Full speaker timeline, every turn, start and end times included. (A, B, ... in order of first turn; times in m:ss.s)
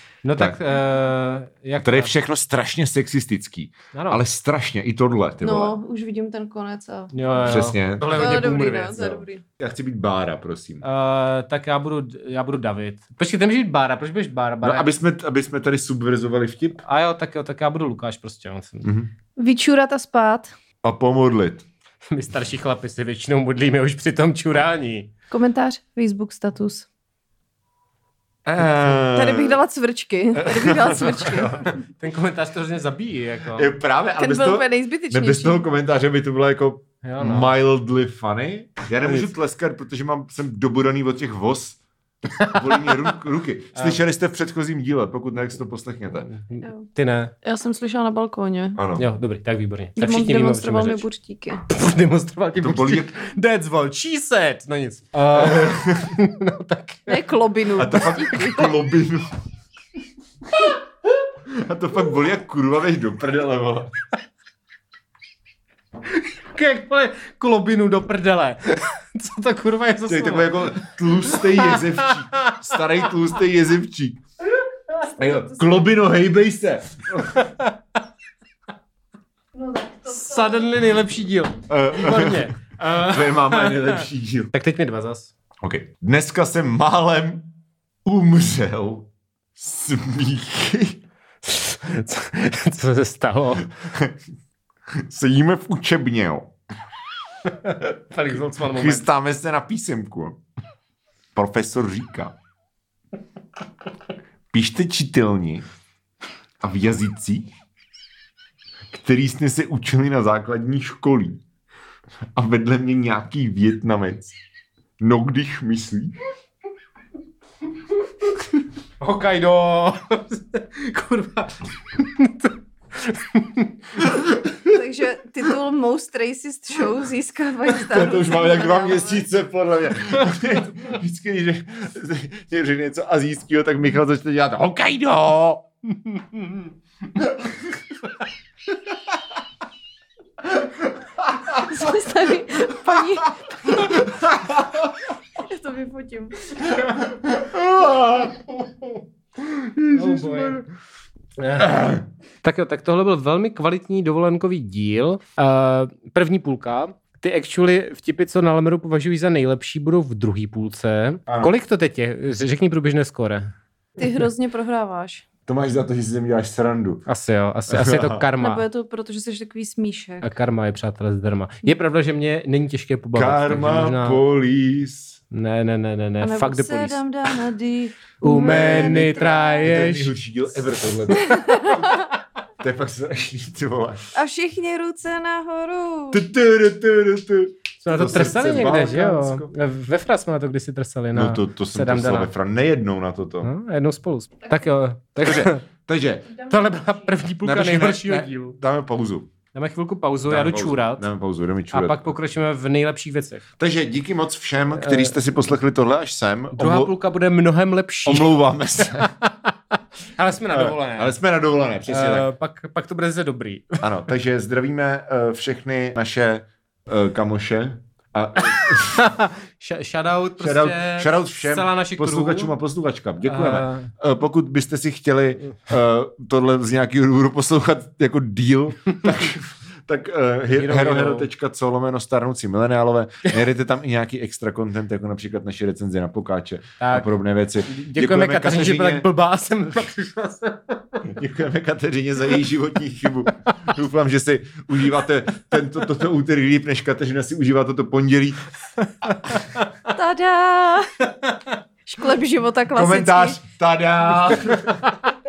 0:00.2-0:02.1 A
0:01.8-0:05.8 B
0:03.9-0:04.2 A
0:05.4-0:07.6 C
0:07.1-0:09.0 A
0:07.4-0:10.8 B
0:08.1-0:09.4 C
0:10.8-0:14.9 A
0:14.6-0:16.8 B
0:16.8-0:18.9 A
0:18.8-0:19.1 B
0:19.4-0:20.5 C
0:20.8-0:21.6 B
0:22.1-0:25.1 A
0:25.3-0:26.9 C
0:28.4-0:29.6 B
0:29.1-0:31.8 C
0:30.4-0:31.8 B
0:32.0-0:33.7 A
0:33.6-0:41.8 B
0:34.2-0:35.7 C
0:37.0-0:37.5 A
0:39.0-0:39.3 A
0:42.4-0:43.0 A
0:42.4-0:46.3 B
0:43.7-0:44.0 A
0:46.5-0:47.3 A
0:47.4-0:48.8 C
0:48.8-0:49.0 B
0:49.0-0:51.0 A
0:50.0-0:51.6 C
0:51.7-0:57.2 A
0:52.6-0:53.2 B
0:55.3-0:56.2 B
0:57.1-0:58.7 C
0:57.8-0:59.3 B
1:01.5-1:03.9 B
1:06.5-1:13.3 A
1:10.1-1:14.2 B
1:15.2-1:17.5 B
1:17.3-1:17.7 A
1:19.5-1:20.6 C
1:20.1-1:25.3 A
1:21.7-1:24.5 B
1:25.6-1:27.5 B
1:28.0-1:31.0 B
1:31.4-1:33.7 A
1:33.8-1:34.2 B
1:35.0-1:36.5 B
1:37.4-1:39.1 A
1:38.6-1:40.4 B
1:41.3-1:42.3 B
1:44.5-1:45.7 B
1:46.6-1:47.5 B
1:48.9-1:51.4 B
1:52.3-1:54.3 B
1:55.0-1:56.1 B
1:59.0-2:03.7 A
2:04.0-2:04.7 B
2:04.7-2:09.3 C
2:07.8-2:15.6 B
2:17.2-2:17.5 B
2:21.3-2:21.6 B
2:21.4-2:23.9 C
2:23.7-2:24.8 B
2:25.3-2:26.6 C
2:26.7-2:28.4 B
2:29.4-2:30.6 B
2:29.9-2:30.6 A
2:31.4-2:31.8 A
2:31.6-2:32.0 B
2:32.4-2:43.5 A
2:41.3-2:41.5 B
2:44.0-2:45.2 C
2:45.5-2:47.0 B
2:47.1-2:48.6 A
2:47.7-2:48.2 B
2:48.4-2:50.3 C
2:50.2-2:54.2 A
2:53.1-2:55.2 B
2:55.3-2:57.0 A
2:56.2-2:59.9 C
2:58.2-3:00.1 A
2:58.3-3:01.9 B
3:01.1-3:02.0 C
3:02.6-3:04.1 B
3:04.1-3:06.2 C
3:06.1-3:09.5 B
3:07.8-3:12.3 A
3:11.1-3:13.5 B
3:13.4-3:15.6 A
3:15.2-3:16.4 B
3:16.4-3:18.6 A
3:17.4-3:19.3 B
3:19.5-3:21.1 A
3:20.3-3:22.1 B
3:21.7-3:23.4 A
3:23.6-3:26.9 B
3:24.8-3:25.2 A
3:26.6-3:29.5 A
3:28.0-3:29.1 B
3:30.1-3:31.2 A
3:30.5-3:32.3 B
3:31.9-3:33.9 A
3:33.8-3:39.0 B
3:38.4-3:42.5 A
3:40.4-3:59.0 B
3:43.3-3:43.9 A
3:50.5-3:51.3 A
3:56.8-3:57.1 A
3:57.6-4:01.0 A
4:01.0-4:08.4 B
4:09.0-4:09.6 A
4:09.9-4:11.1 C
4:11.8-4:13.4 C
4:12.7-4:14.9 B
4:14.5-4:15.1 A